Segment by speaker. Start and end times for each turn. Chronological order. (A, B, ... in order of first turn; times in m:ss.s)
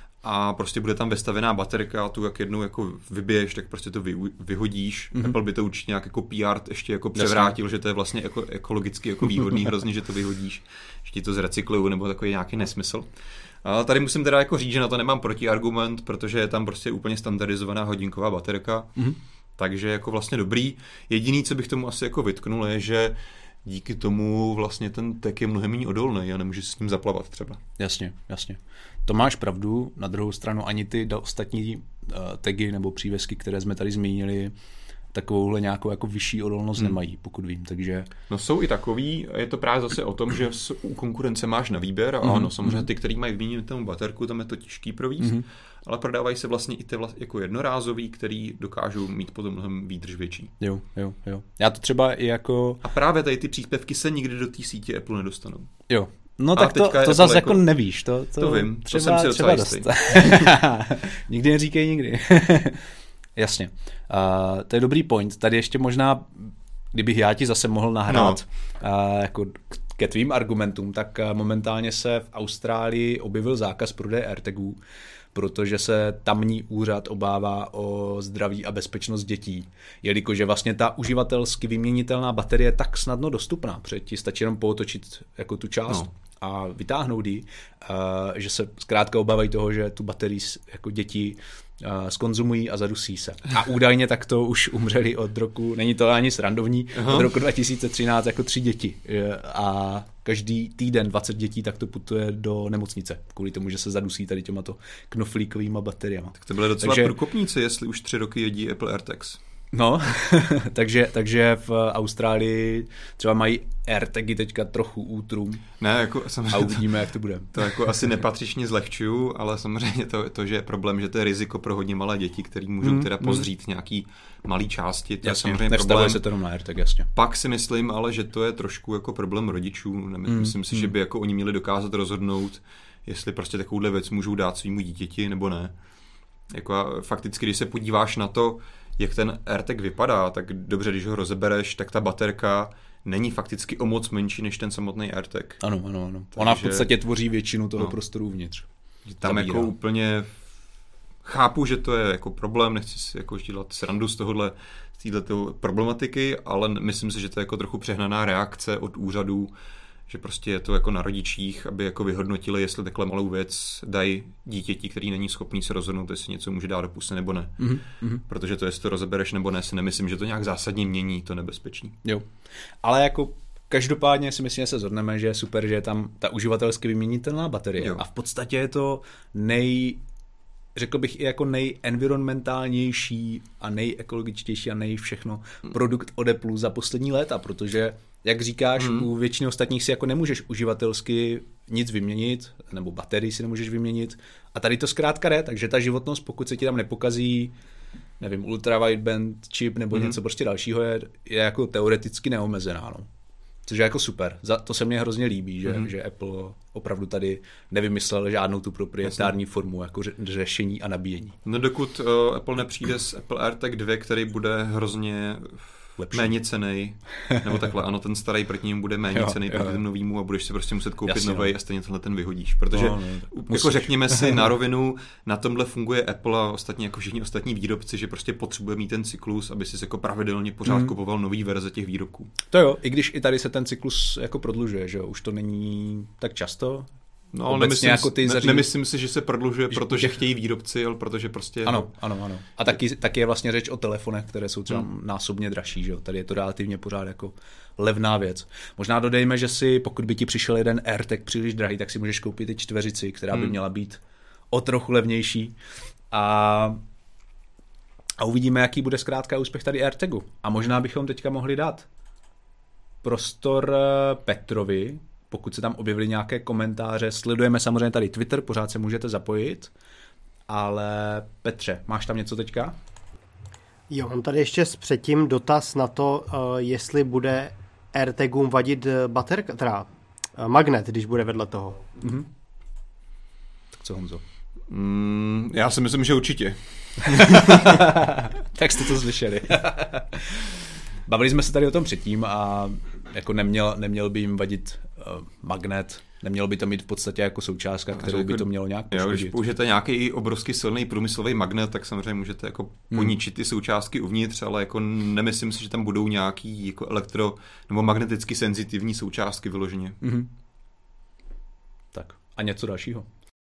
0:00.2-0:13.1 A
0:07.2-0:07.6 B
0:13.6-0:18.9 A
0:19.6-0:27.6 A
0:27.8-0:34.5 B
0:35.1-0:38.1 B
0:38.3-0:50.5 A
0:42.2-0:42.9 B
0:45.2-0:45.4 B
0:50.6-0:52.8 B
0:52.8-0:55.7 A
0:55.9-1:14.8 B
0:56.5-0:57.8 A
0:58.4-1:00.5 A
1:08.1-1:08.4 A
1:15.3-1:47.1 B
1:36.9-1:37.3 A
1:46.4-1:49.4 A
1:49.7-1:55.6 B
1:55.8-1:56.9 A
1:56.5-1:57.7 B
1:57.5-2:06.2 A
2:02.8-2:03.4 B
2:05.2-2:07.1 B
2:07.1-2:15.7 A
2:10.2-2:10.9 B
2:16.5-2:25.6 A
2:25.6-2:28.7 B
2:26.3-2:26.9 A
2:29.1-2:30.4 A
2:29.2-2:29.7 B
2:31.2-2:39.5 A
2:40.1-2:52.0 A
2:47.6-2:48.2 B
2:52.8-3:00.0 B
3:00.7-3:17.5 B
3:08.8-3:09.1 A
3:18.2-3:23.1 B
3:23.6-3:31.4 B
3:31.4-3:52.3 A
3:36.0-3:36.4 B
3:37.3-3:37.6 B
3:39.1-3:39.8 B
3:41.1-3:41.5 B
3:42.7-3:44.5 B
3:50.7-3:50.9 B
3:52.5-3:56.9 B
3:57.3-4:01.9 A
3:57.5-3:58.7 B
3:59.7-4:00.2 B
4:01.6-4:14.0 B
4:14.5-4:15.6 B
4:16.1-4:16.8 B
4:18.2-4:21.9 B
4:23.0-4:29.7 B
4:30.5-4:32.7 B
4:33.9-4:41.9 C
4:42.0-4:42.3 B
4:43.7-4:44.2 B
4:44.7-4:47.9 A
4:47.2-4:50.5 B
4:51.1-4:59.4 B
4:57.9-5:10.0 A
5:02.9-5:03.2 B
5:10.0-5:10.3 B
5:11.9-5:13.1 B